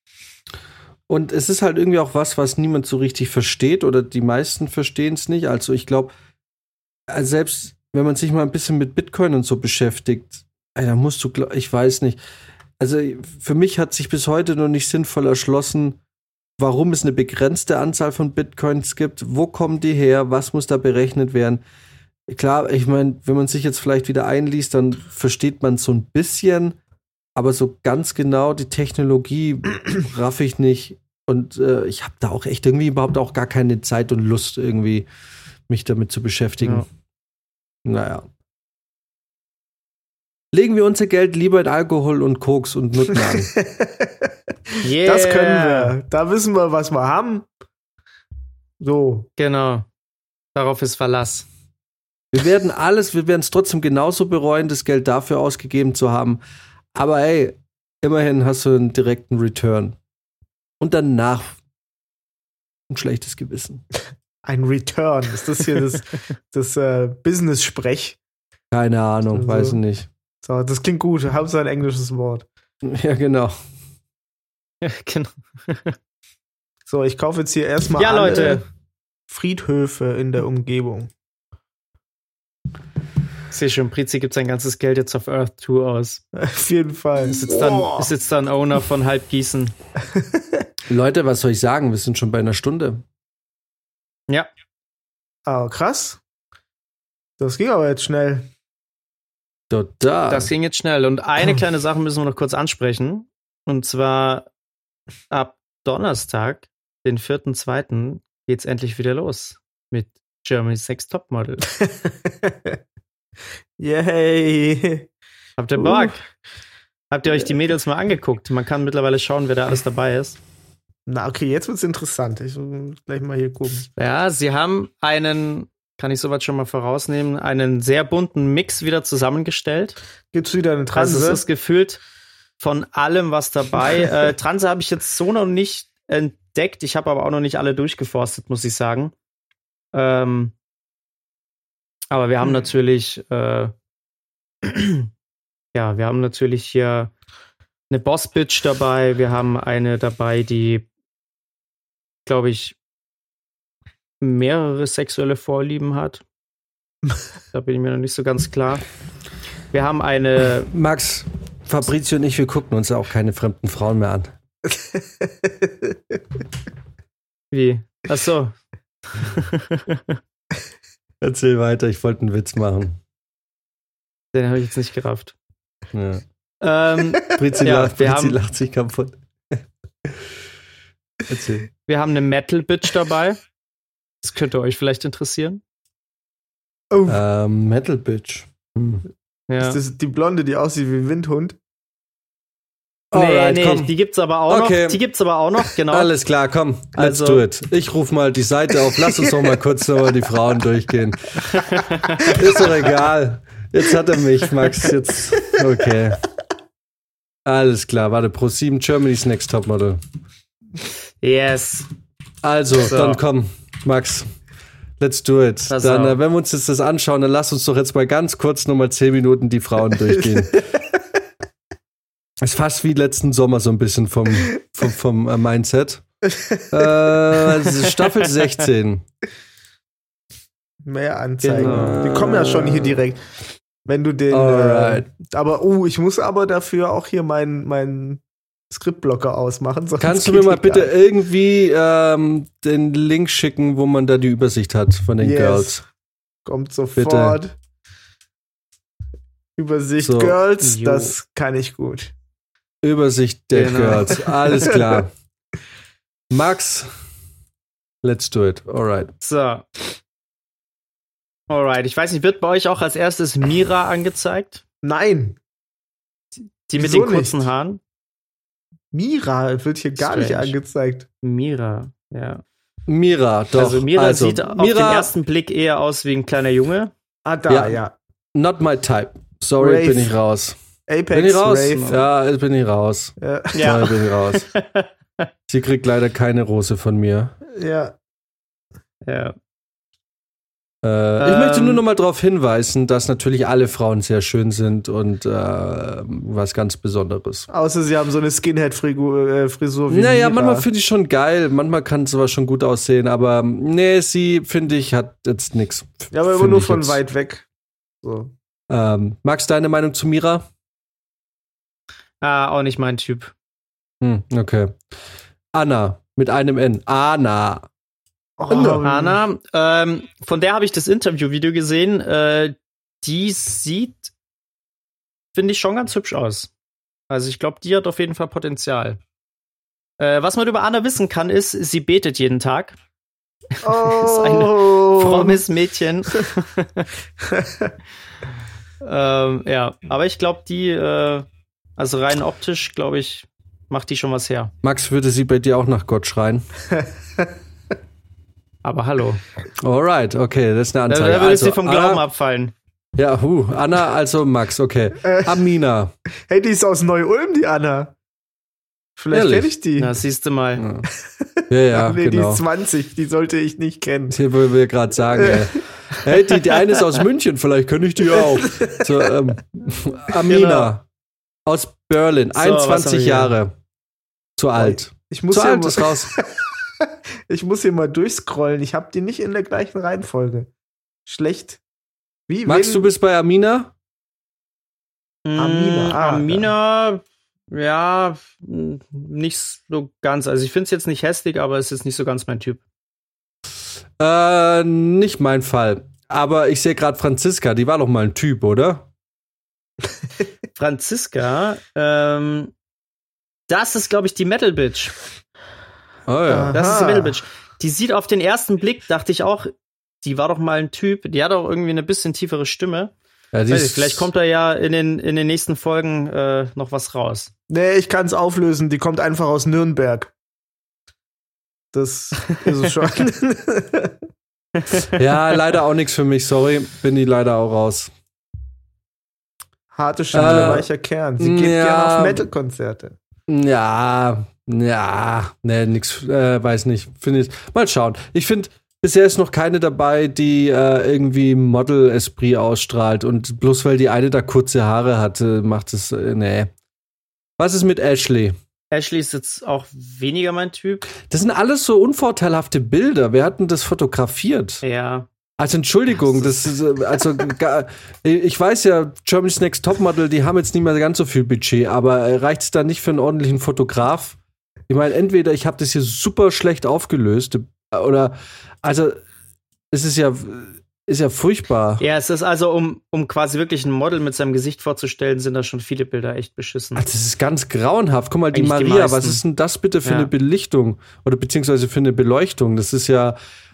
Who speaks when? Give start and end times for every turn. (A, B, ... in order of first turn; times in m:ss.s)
0:01.1-0:06.1 A
0:07.1-0:12.2 A
0:12.8-0:16.0 A
0:16.6-0:21.6 A
0:22.3-0:26.8 A
0:27.4-0:35.1 A
0:35.7-0:36.9 A
0:37.8-0:38.3 A
0:40.5-0:43.5 A
0:43.6-0:44.1 B
0:44.8-0:47.5 B
0:44.8-0:45.9 C
0:48.8-0:49.3 B
0:49.4-0:49.9 C
0:50.6-0:51.5 C
0:52.3-0:56.4 A
0:56.9-1:00.0 A
1:00.8-1:01.6 A
1:02.9-1:03.8 A
1:04.4-1:08.2 B
1:08.7-1:10.1 A
1:09.3-1:09.8 B
1:10.4-1:12.5 B
1:12.8-1:13.6 A
1:14.8-1:16.0 C
1:16.9-1:18.6 B
1:18.0-1:18.6 C
1:19.3-1:21.1 B
1:23.5-1:26.2 C
1:26.3-1:28.1 B
1:27.2-1:29.7 C
1:30.9-1:33.0 A
1:35.5-1:36.2 B
1:37.4-1:38.5 B
1:39.7-1:40.5 A
1:40.3-1:44.5 C
1:45.3-1:51.7 C
1:51.7-1:52.8 B
1:53.8-1:55.1 B
1:55.6-1:56.2 C
1:57.1-2:00.4 C
2:01.1-2:03.9 B
2:04.0-2:10.0 C
2:10.3-2:11.4 B
2:10.9-2:12.0 C
2:12.6-2:19.1 C
2:19.9-2:20.5 C
2:22.1-2:23.7 C
2:24.6-2:25.1 C
2:25.7-2:27.1 C
2:27.9-2:30.9 C
2:32.3-2:32.8 C
2:34.2-2:36.2 C
2:37.5-2:38.8 C
2:39.7-2:40.7 C
2:40.7-2:44.3 A
2:44.7-2:45.7 B
2:47.5-2:48.6 C
2:49.1-2:50.2 C
2:51.2-2:53.0 A
2:54.3-2:55.4 C
2:55.9-2:56.2 A
2:56.6-2:58.4 C
2:57.4-3:00.2 A
3:01.3-3:01.7 A
3:01.9-3:03.4 C
3:04.2-3:05.6 C
3:06.9-3:07.2 B
3:07.1-3:09.1 A
3:09.5-3:09.8 C
3:09.6-3:11.6 B
3:13.1-3:13.9 A
3:13.1-3:16.1 C
3:14.5-3:15.0 A
3:15.9-3:21.7 A
3:17.0-3:17.4 C
3:21.6-3:22.3 C
3:22.2-3:22.7 B
3:22.3-3:26.2 A
3:27.4-3:30.0 A
3:31.2-3:31.9 C
3:32.4-3:34.3 A
3:32.8-3:33.2 C
3:35.0-3:40.6 A
3:35.7-3:36.2 C
3:42.4-3:46.0 A
3:46.2-3:47.2 B
3:46.7-3:49.0 A
3:50.8-3:53.2 B
3:51.4-3:52.0 C
3:51.6-3:53.0 A
3:53.8-4:00.9 B
3:54.3-3:55.1 A
4:00.0-4:05.8 A
4:05.2-4:05.8 B
4:06.4-4:07.6 B
4:07.0-4:07.4 A
4:09.6-4:12.1 B
4:10.0-4:10.4 A
4:10.6-4:11.1 C
4:12.8-4:15.1 A
4:13.5-4:14.3 C
4:16.3-4:16.9 A
4:18.0-4:19.1 A
4:19.2-4:19.6 C
4:21.5-4:24.6 C
4:24.8-4:25.4 B
4:26.7-4:27.8 C
4:26.8-4:27.4 B
4:28.9-4:31.1 B
4:30.0-4:30.6 C
4:31.2-4:32.4 C
4:32.9-4:35.1 A
4:33.5-4:36.9 C
4:37.2-4:37.9 B
4:37.5-4:37.8 A
4:38.4-4:40.6 A
4:39.6-4:40.2 B
4:40.9-4:42.0 B
4:41.1-4:44.5 A
4:43.2-4:43.7 B
4:43.5-4:45.3 C
4:45.5-4:47.4 A
4:47.5-4:48.0 B
4:49.0-4:49.4 C
4:50.8-4:57.5 A
4:51.2-4:51.8 C
4:57.5-5:00.7 B
4:59.9-5:07.0 A
5:06.1-5:07.5 B
5:08.0-5:08.3 B
5:08.7-5:10.5 A
5:12.2-5:13.3 C
5:14.0-5:14.8 A
5:15.5-5:17.7 A
5:18.4-5:19.2 B
5:18.5-5:18.8 A
5:18.8-5:24.1 C
5:25.3-5:26.5 C
5:27.1-5:29.0 C
5:30.0-5:32.8 C
5:33.6-5:36.9 C
5:33.6-5:35.4 B
5:37.3-5:37.7 B
5:38.8-5:44.5 C
5:44.6-5:46.5 A
5:46.8-5:47.3 B
5:48.6-5:49.2 C
5:49.6-5:52.0 A
5:50.9-5:52.5 C
5:53.0-5:55.9 A
5:55.0-5:55.4 B
5:56.3-5:57.9 B
5:59.0-5:59.9 B
5:59.1-5:59.5 A
5:59.8-6:00.6 C
6:00.6-6:00.9 A
6:01.2-6:04.2 B
6:01.5-6:02.4 A
6:04.1-6:10.9 A
6:05.2-6:05.5 B
6:08.2-6:09.1 B
6:10.3-6:10.7 C
6:11.5-6:13.5 A
6:12.4-6:13.3 C
6:14.4-6:16.1 A
6:14.6-6:20.5 B
6:21.1-6:21.6 B
6:22.3-6:22.9 B
6:22.5-6:23.7 A
6:25.2-6:32.6 C
6:25.4-6:26.5 B
6:34.0-6:38.9 A
6:40.6-6:42.5 C
6:43.5-6:45.0 C
6:46.1-6:46.6 A
6:46.3-6:47.2 B
6:46.5-6:52.9 C
6:53.3-6:54.1 A
6:53.5-6:57.3 C
6:57.5-7:00.1 B
7:01.7-7:04.0 B
7:04.9-7:07.9 A
7:09.7-7:13.0 B
7:10.1-7:12.3 A
7:13.3-7:26.5 A
7:27.4-7:28.4 A
7:28.7-7:31.0 C
7:31.0-7:34.6 A
7:34.6-7:35.1 C
7:35.4-7:49.0 A
7:49.7-7:51.8 A
7:51.8-7:56.8 C
7:56.8-8:03.2 A
7:58.3-7:59.2 C
7:59.8-8:00.1 C